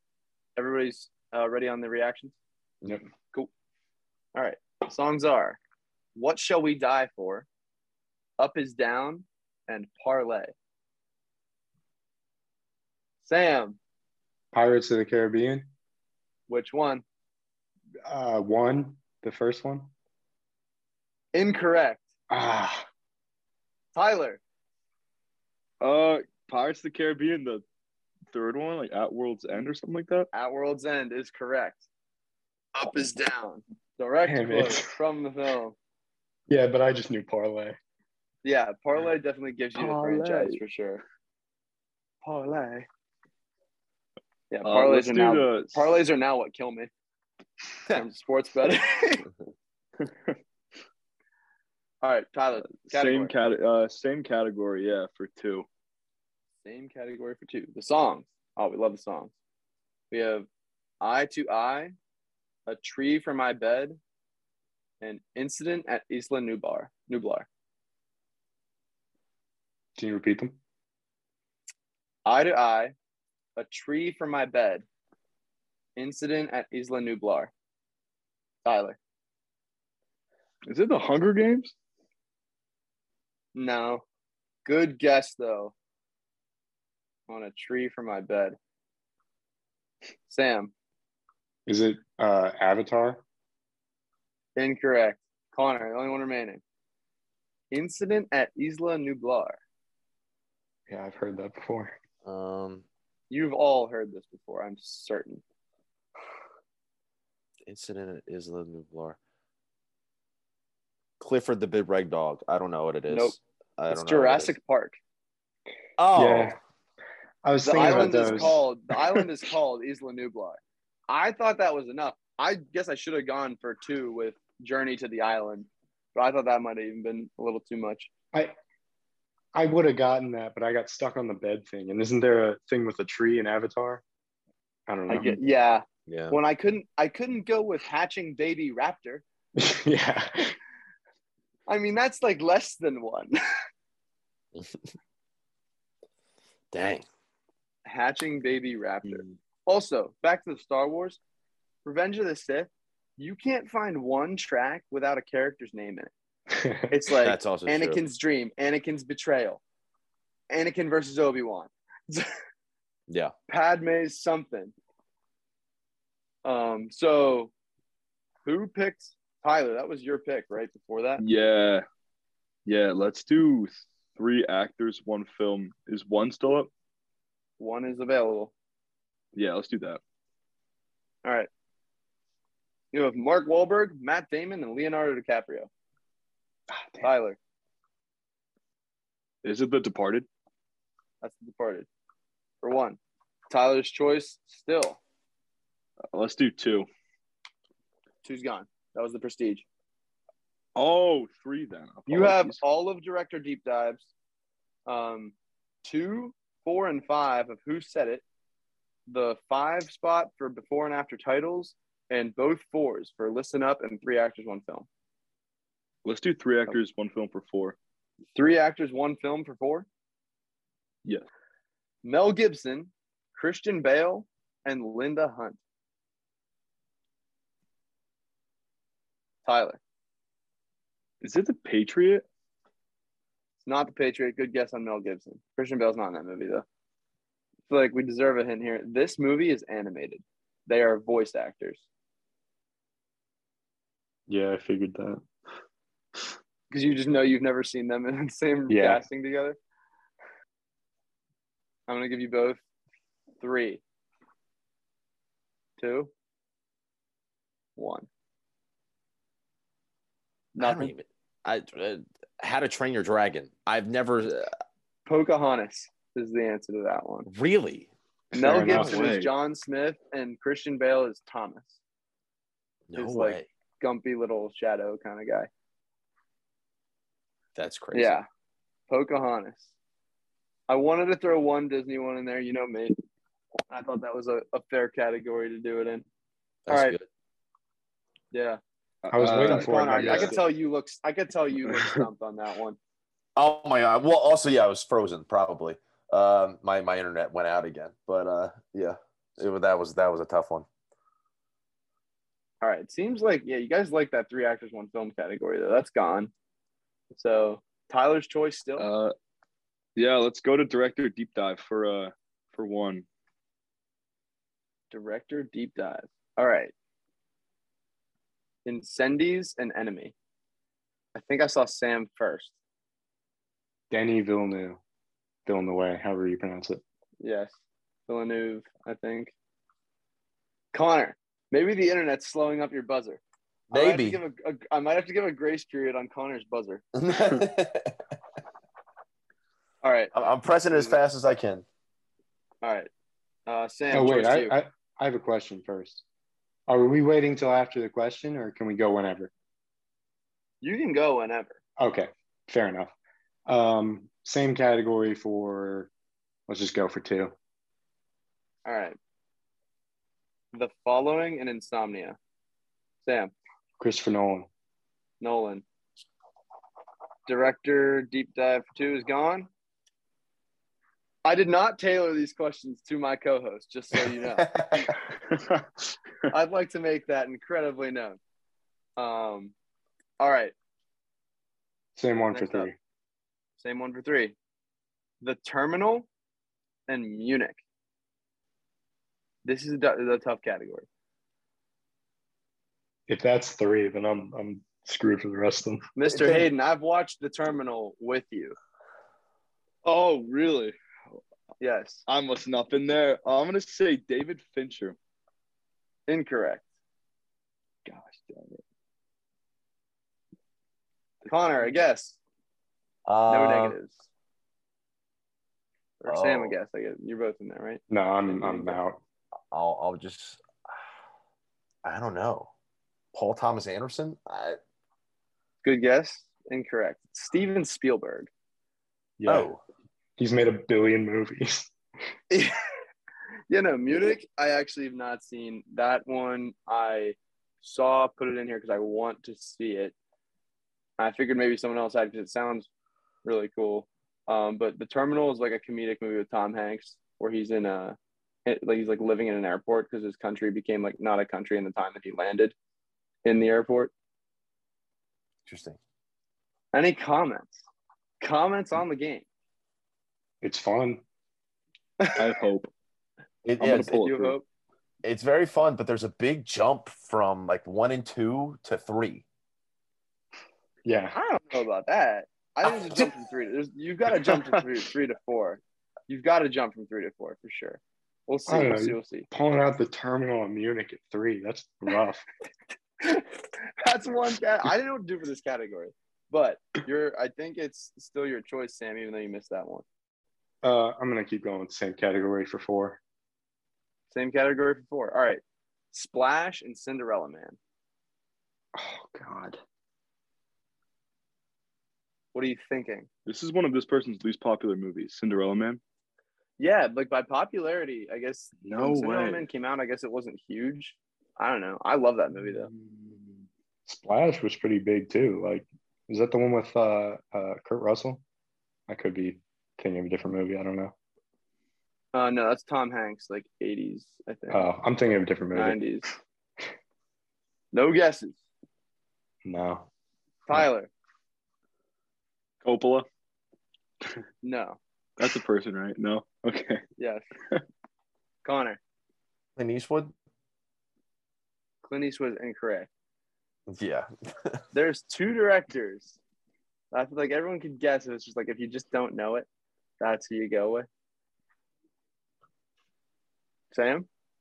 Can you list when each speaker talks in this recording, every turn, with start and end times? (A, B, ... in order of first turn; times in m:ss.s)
0:00.6-0:02.4 A
0:04.3-0:05.6 A
0:06.2-0:07.5 A
0:08.4-0:10.5 A
0:13.2-0:13.8 A
0:14.5-0:15.7 B
0:16.5-0:17.0 A
0:18.1-0:19.9 B
0:21.3-0:22.1 A
0:22.3-0:22.9 B
0:23.9-0:24.4 A
0:25.8-0:27.6 C
0:28.3-0:30.3 C
0:30.3-0:31.8 A
0:32.8-0:35.8 A
0:34.3-0:34.9 B
0:36.5-0:37.8 B
0:38.4-0:41.0 A
0:39.8-0:40.6 C
0:42.2-0:42.9 A
0:44.5-0:46.9 A
0:44.6-0:45.9 C
0:47.9-0:49.3 A
0:50.0-0:50.3 C
0:52.0-0:53.3 A
0:52.8-0:55.7 C
0:56.6-0:59.3 A
1:00.1-1:00.5 A
1:01.0-1:01.9 A
1:02.7-1:04.0 A
1:05.0-1:07.5 A
1:10.0-1:10.6 B
1:12.3-1:12.9 A
1:13.6-1:14.8 A
1:16.0-1:17.5 A
1:18.6-1:19.0 A
1:20.7-1:21.7 C
1:23.6-1:24.0 A
1:24.6-1:25.7 A
1:27.3-1:28.6 A
1:30.3-1:30.7 A
1:31.7-1:33.2 B
1:34.6-1:36.6 A
1:37.7-1:39.6 A
1:40.9-1:42.0 B
1:42.2-1:42.8 D
1:43.3-1:45.4 A
1:47.7-1:49.2 D
1:51.2-1:54.6 D
1:53.1-1:53.4 A
1:53.9-1:55.0 A
1:56.0-1:56.6 D
1:56.2-1:56.6 B
1:57.4-1:58.6 B
1:57.6-2:08.1 A
2:09.5-2:14.0 B
2:14.9-2:15.4 B
2:15.1-2:19.2 A
2:16.1-2:16.4 D
2:19.6-2:20.6 B
2:21.7-2:23.3 A
2:26.7-2:27.1 D
2:27.9-2:31.2 A
2:31.8-2:36.1 A
2:36.5-2:36.9 B
2:36.9-2:39.6 A
2:37.2-2:38.0 D
2:40.5-2:42.3 A
2:43.1-2:43.3 D
2:43.5-2:44.7 A
2:46.4-2:47.5 A
2:48.4-2:51.2 A
2:51.2-2:51.8 C
2:52.7-2:56.7 C
2:57.6-2:58.5 A
2:59.4-3:00.0 C
3:01.2-3:01.5 A
3:02.9-3:05.7 A
3:06.7-3:07.1 B
3:07.0-3:07.4 A
3:09.4-3:10.3 C
3:11.2-3:11.9 A
3:12.6-3:13.0 A
3:13.5-3:15.0 A
3:16.1-3:16.9 C
3:18.2-3:19.6 A
3:20.8-3:22.6 C
3:22.1-3:24.1 A
3:24.9-3:28.2 A
3:29.1-3:34.9 A
3:36.0-3:37.8 C
3:38.4-3:39.9 A
3:42.0-3:45.6 A
3:49.4-3:49.8 A
3:51.2-3:52.2 C
3:53.6-3:56.6 A
3:57.7-4:01.8 A
4:04.3-4:05.2 B
4:06.7-4:09.6 A
4:08.7-4:09.0 B
4:11.9-4:12.6 A
4:13.4-4:13.8 A
4:15.8-4:16.1 A
4:17.8-4:18.1 A
4:20.6-4:20.9 A
4:20.6-4:24.5 D
4:25.1-4:27.3 A
4:27.3-4:27.9 D
4:28.3-4:31.8 A
4:28.4-4:29.0 B
4:28.5-4:29.3 C
4:32.9-4:33.5 D
4:33.0-4:35.5 A
4:37.6-4:38.2 D
4:37.9-4:38.3 A
4:38.9-4:39.7 A
4:40.7-4:43.0 A
4:43.7-4:46.0 A
4:46.7-4:47.0 D
4:46.7-4:47.0 A
4:48.3-4:48.6 A
4:49.0-4:50.4 C
4:49.1-4:50.3 B
4:49.2-4:52.8 A
4:53.4-5:00.7 D
5:02.6-5:06.3 A
5:07.1-5:08.9 A
5:08.8-5:09.2 C
5:10.0-5:13.1 C
5:14.9-5:16.7 A
5:18.6-5:20.1 A
5:21.2-5:22.5 A
5:23.9-5:24.8 B
5:25.5-5:26.8 B
5:27.2-5:27.6 A
5:28.1-5:29.3 A
5:30.7-5:36.8 A
5:33.7-5:34.2 D
5:37.0-5:38.0 D
5:39.8-5:40.1 A
5:40.1-5:41.6 D
5:40.7-5:41.0 A
5:42.6-5:42.9 A
5:43.5-5:44.6 A
5:43.9-5:46.0 B
5:46.7-5:49.3 B
5:50.6-5:51.6 A
5:51.8-5:52.9 B
5:53.5-5:55.9 B
5:56.5-5:57.3 B
5:58.6-5:59.0 A
6:00.5-6:02.2 A
6:03.0-6:03.3 A
6:03.8-6:04.5 B
6:05.2-6:05.6 A
6:07.3-6:09.5 A
6:11.2-6:14.5 A
6:14.4-6:15.0 D
6:15.3-6:15.8 C
6:16.3-6:18.2 A
6:19.0-6:19.5 A
6:20.2-6:20.5 A
6:22.0-6:22.8 B
6:22.3-6:22.7 A
6:23.6-6:24.4 A
6:25.2-6:26.1 A
6:26.9-6:27.6 A
6:29.4-6:30.9 A
6:33.1-6:35.8 B
6:36.0-6:38.6 A
6:39.8-6:40.8 C
6:41.6-6:42.0 A
6:42.1-6:45.0 C
6:46.1-6:46.6 A
6:47.8-6:48.6 C
6:51.3-6:52.2 A
6:53.1-6:53.8 D
6:53.3-6:54.0 A
6:56.0-6:57.8 A
6:56.1-6:56.5 D
6:57.9-6:59.0 B
6:58.3-6:58.7 A
6:59.5-7:00.4 D
7:01.8-7:02.5 D
7:03.1-7:04.6 D
7:05.6-7:08.3 A
7:09.2-7:09.5 B
7:09.3-7:09.6 D
7:10.2-7:11.7 B
7:12.3-7:12.6 A
7:13.5-7:20.0 A
7:21.0-7:22.7 A
7:23.2-7:32.6 A
7:33.2-7:33.9 A
7:35.5-7:35.8 D
7:36.7-7:37.6 A
7:38.2-7:39.3 A
7:40.4-7:41.0 B
7:42.2-7:42.7 C
7:43.4-7:44.0 D
7:43.6-7:44.4 C
7:43.9-7:44.4 A
7:45.0-7:49.2 D
7:50.8-7:51.2 B
7:51.1-7:59.3 A
7:58.5-8:02.2 B
8:03.0-8:03.3 A
8:03.8-8:09.8 A
8:10.6-8:13.0 B
8:14.1-8:17.6 A
8:18.8-8:19.6 B
8:22.3-8:23.1 A
8:23.3-8:25.8 C
8:26.6-8:32.7 A
8:28.6-8:29.5 C
8:32.5-8:33.4 C
8:33.9-8:38.2 B
8:38.9-8:40.9 B
8:42.1-8:44.7 A
8:44.5-8:45.8 B
8:45.6-8:46.1 A
8:47.7-8:48.4 A
8:49.4-8:49.9 B
8:50.5-8:50.9 A
8:52.6-8:53.1 C
8:54.4-8:54.8 A
8:55.2-8:56.8 C
8:57.0-8:57.2 A
8:58.4-8:58.8 A
8:59.6-9:00.1 D
9:01.8-9:02.9 A
9:03.7-9:04.6 D
9:04.7-9:06.2 A
9:06.9-9:09.5 A
9:10.0-9:10.9 A
9:13.7-9:14.1 A